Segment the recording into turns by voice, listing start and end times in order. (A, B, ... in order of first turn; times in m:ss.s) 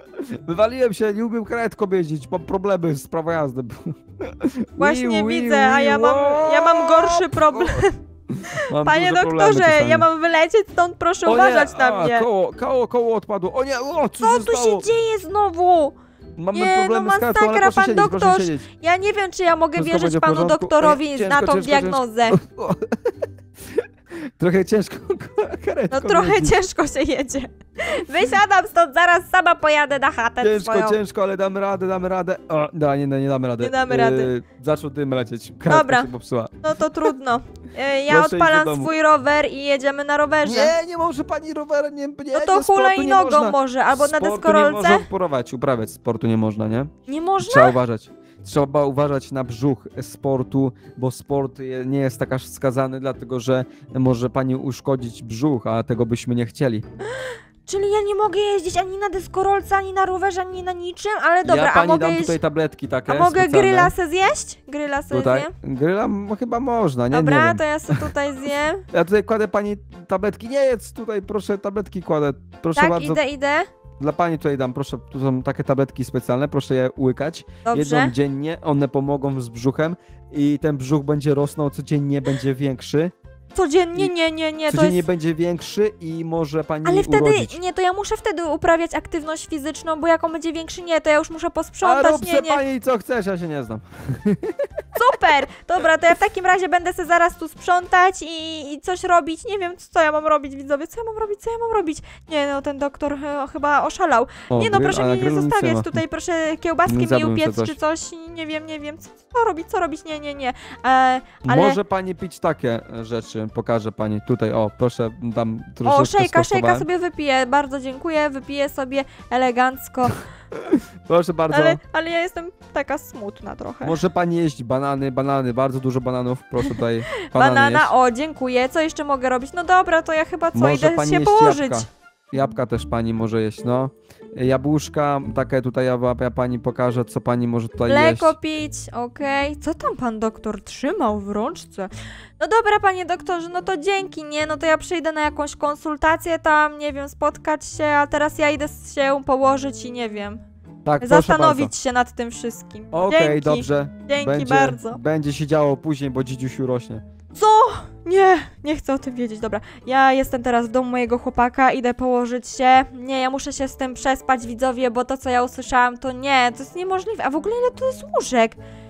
0:00.2-0:10.1 A
0:04.8-0:08.0 B
0:08.6-0:12.3 B
0:11.2-0:14.9 A
0:14.2-0:16.0 B
0:16.4-0:18.7 A
0:16.5-0:22.4 B
0:19.8-0:23.2 A
0:24.4-0:26.6 A
0:25.9-0:31.0 B
0:30.4-0:36.5 A
0:33.6-0:34.3 B
0:35.7-0:36.1 B
0:36.6-0:40.7 B
0:38.1-0:38.9 A
0:40.4-0:56.8 A
0:42.3-0:45.1 B
0:47.1-0:47.8 B
0:57.2-1:02.4 B
1:01.4-1:03.9 A
1:03.1-1:05.5 B
1:05.1-1:08.0 A
1:07.1-1:08.9 B
1:08.9-1:13.2 A
1:12.8-1:13.7 B
1:14.0-1:23.1 A
1:17.6-1:18.1 B
1:23.6-1:25.0 B
1:24.7-1:27.6 A
1:26.8-1:32.6 B
1:31.8-1:34.6 A
1:35.0-1:51.8 B
1:44.5-1:46.0 A
1:46.9-1:47.8 A
1:51.4-1:56.9 A
1:55.8-2:00.2 B
2:00.6-2:01.8 A
2:01.5-2:04.0 B
2:03.8-2:07.9 A
2:06.6-2:11.9 B
2:10.5-2:18.3 A
2:17.9-2:30.4 B
2:30.8-2:31.7 A
2:31.0-2:35.0 B
2:32.9-2:37.0 A
2:37.4-2:48.6 B